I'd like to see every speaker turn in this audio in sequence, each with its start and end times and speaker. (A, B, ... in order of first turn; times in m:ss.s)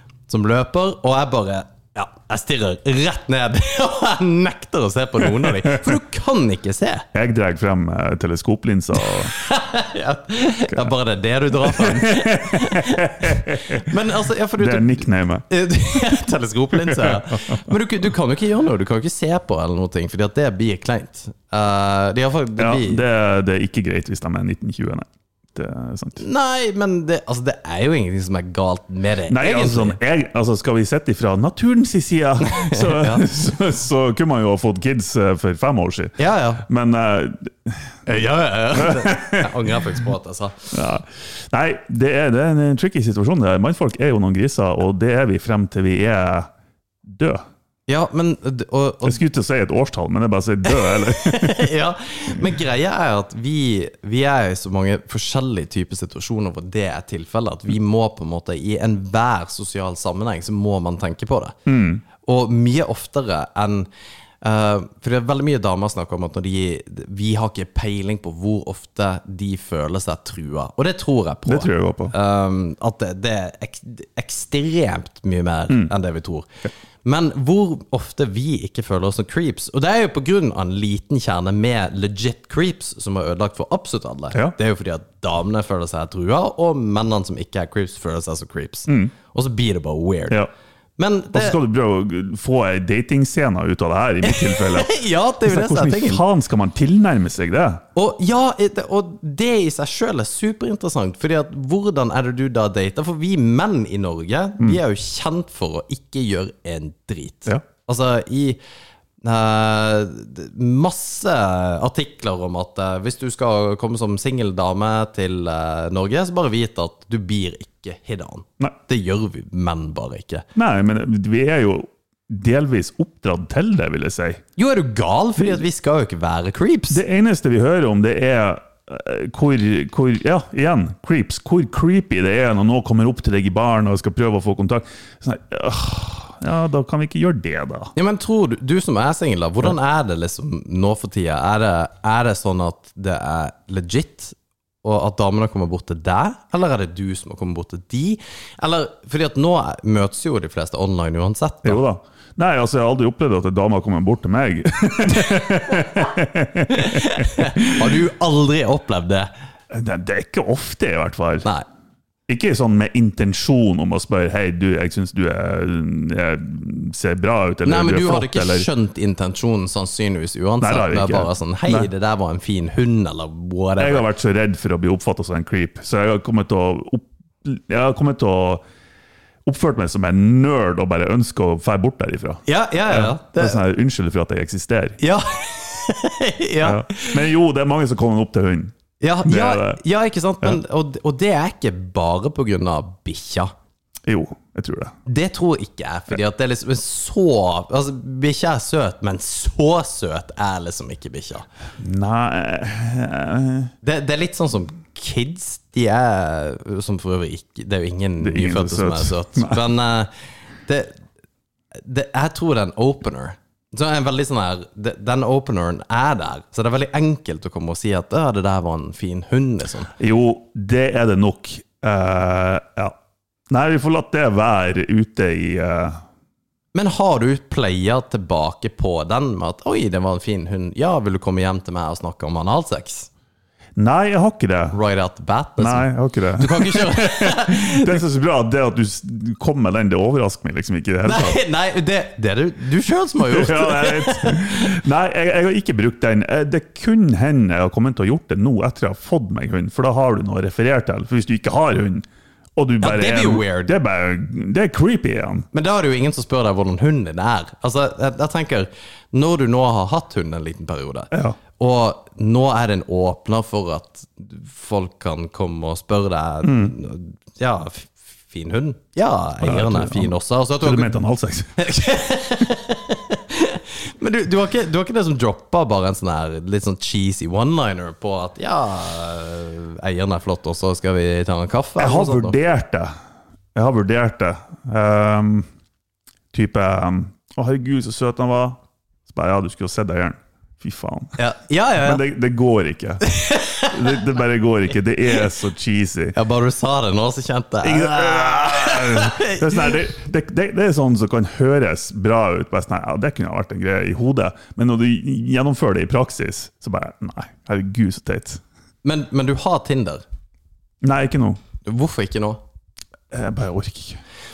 0:00.3-0:07.1 A
0:05.2-0:06.0 B
0:07.1-0:09.3 B
0:09.1-0:23.0 A
0:11.6-0:13.9 B
0:14.6-0:15.5 B
0:16.8-0:17.6 B
0:22.6-0:26.2 B
0:26.2-0:30.0 A
0:29.3-0:38.0 B
0:32.5-0:33.3 A
0:36.2-0:36.6 A
0:38.1-0:40.7 A
0:38.7-0:39.8 B
0:40.7-0:46.5 B
0:47.0-0:47.4 B
0:47.9-0:49.2 A
0:49.0-0:51.7 B
0:50.7-1:01.6 A
1:01.7-1:02.0 B
1:02.2-1:03.9 A
1:04.4-1:16.5 A
1:11.5-1:12.1 B
1:17.0-1:30.4 A
1:28.9-1:29.1 B
1:31.0-1:31.6 A
1:31.3-1:37.8 B
1:34.2-1:36.2 A
1:38.0-1:48.6 A
1:49.2-2:00.5 A
2:00.6-2:04.4 B
2:04.6-2:07.0 A
2:05.4-2:05.6 B
2:06.9-2:17.9 B
2:18.0-2:31.8 A
2:31.6-2:38.0 B
2:36.7-2:39.3 A
2:39.7-2:41.5 B
2:42.3-2:48.7 B
2:47.6-2:54.1 A
2:50.6-2:51.9 B
2:53.8-2:58.6 B
2:59.4-3:05.0 B
3:02.5-3:03.6 A
3:05.0-3:07.2 A
3:06.6-3:09.8 B
3:09.0-3:13.5 A
3:14.1-3:15.0 B
3:15.1-3:21.5 A
3:21.8-3:23.7 B
3:23.8-3:30.1 A
3:28.2-3:29.7 B
3:30.7-3:31.0 A
3:31.7-3:39.9 A
3:40.0-3:43.0 B
3:43.5-3:46.0 B
3:46.7-3:53.1 A
3:53.8-3:54.8 B
3:54.7-3:58.0 A
3:55.6-4:01.4 B
4:01.0-4:04.8 A
4:03.2-4:15.5 B
4:12.8-4:13.8 A
4:15.5-4:31.0 A
4:21.1-4:21.4 B
4:26.4-4:26.8 B
4:29.4-4:31.6 B
4:31.6-4:42.4 A
4:41.8-4:42.9 B
4:43.6-4:45.5 B
4:46.3-4:51.2 B
4:51.2-4:52.0 A
4:51.8-4:53.1 B
4:53.1-4:54.0 A
4:53.6-4:56.2 B
4:56.2-4:59.8 A
4:57.6-5:08.4 B
5:08.8-5:10.0 A
5:10.8-5:11.4 B
5:11.6-5:12.4 A
5:13.1-5:14.0 B